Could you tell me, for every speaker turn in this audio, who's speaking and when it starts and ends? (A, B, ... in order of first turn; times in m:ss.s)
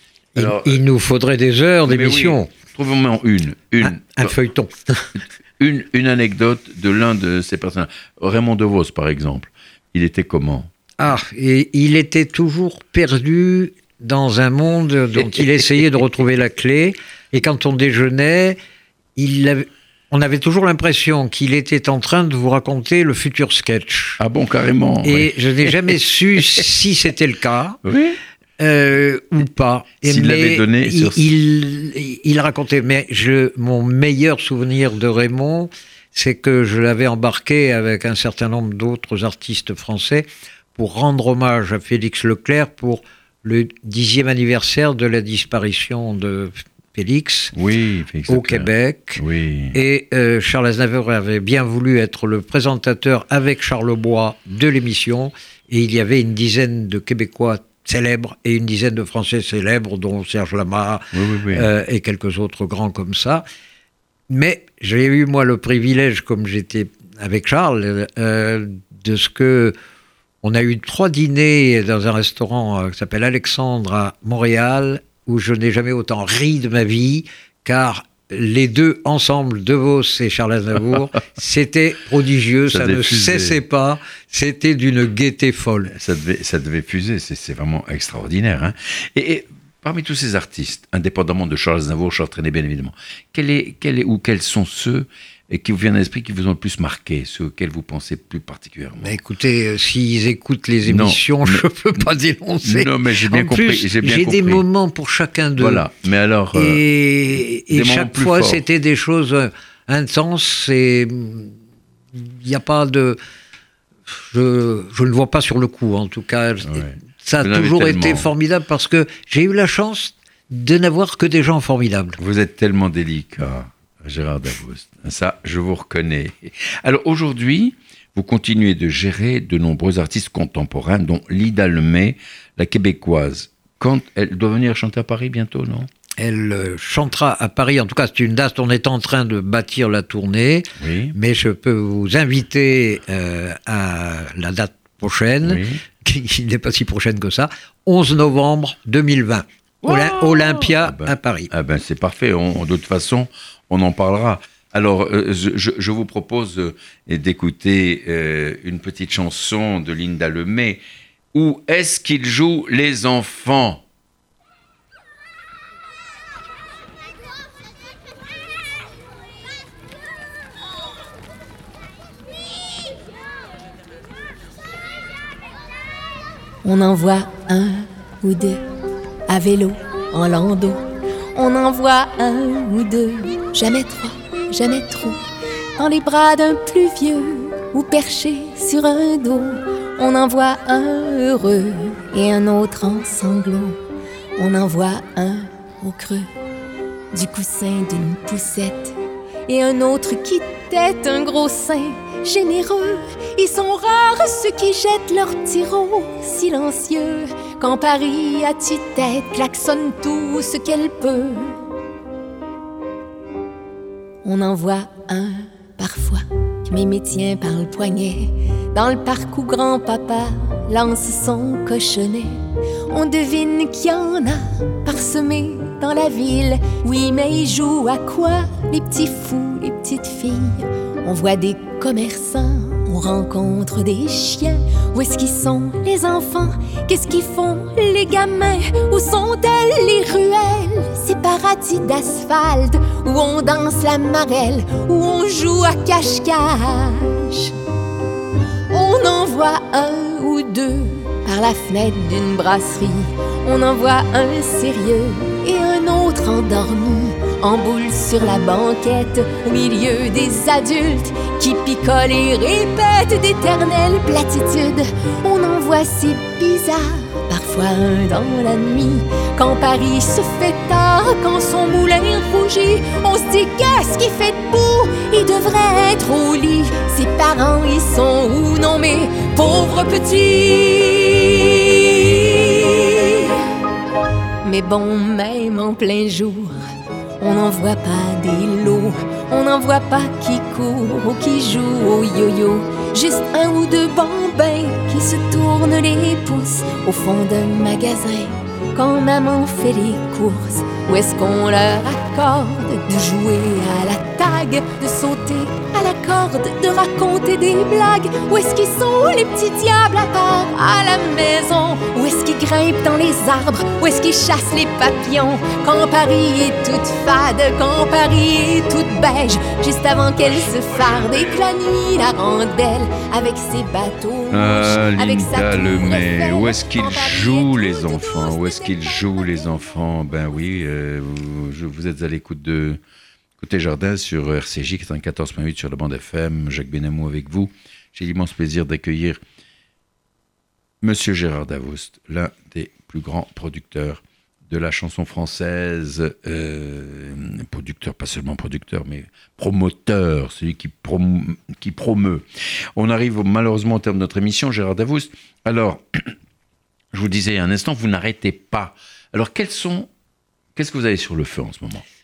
0:00.4-0:00.8 A
0:00.4-0:02.5 B
0:01.9-0:04.3 A
0:03.8-0:05.2 B
0:05.2-0:10.7 A
0:11.0-0:18.6 B
0:19.2-0:24.2 B
0:24.2-0:26.0 A
0:25.0-0:27.8 B
0:27.8-0:28.2 A
0:28.6-0:47.5 B
0:30.0-0:31.3 A
0:47.5-0:49.8 A
0:48.3-0:49.2 B
0:49.7-1:03.4 B
1:01.1-1:01.7 A
1:04.3-1:09.8 B
1:10.4-1:25.9 B
1:22.7-1:23.6 A
1:25.9-1:39.2 A
1:39.0-1:45.8 B
1:40.8-1:41.7 A
1:42.6-1:44.6 A
1:45.6-1:46.8 A
1:46.5-1:51.6 B
1:47.6-1:48.6 A
1:52.1-1:53.2 B
1:54.1-2:02.2 B
1:56.6-1:58.3 A
2:02.2-2:15.9 A
2:16.2-2:31.5 B
2:20.8-2:21.2 A
2:25.4-2:25.8 A
2:29.8-2:40.8 A
2:41.3-2:43.8 A
2:56.6-2:58.6 C
2:59.3-3:00.8 C
3:01.4-3:05.2 C
3:05.8-3:13.8 C
3:14.4-3:16.3 C
3:17.1-3:19.0 C
3:19.5-3:31.6 C
3:34.2-3:42.4 C
3:42.9-4:07.5 C
4:08.7-4:43.5 C
4:44.4-4:46.6 C
4:47.2-5:29.7 C
5:24.3-5:32.8 A
5:33.4-5:39.2 A
5:40.8-5:56.2 A
5:56.9-5:59.9 A
6:00.6-6:01.8 A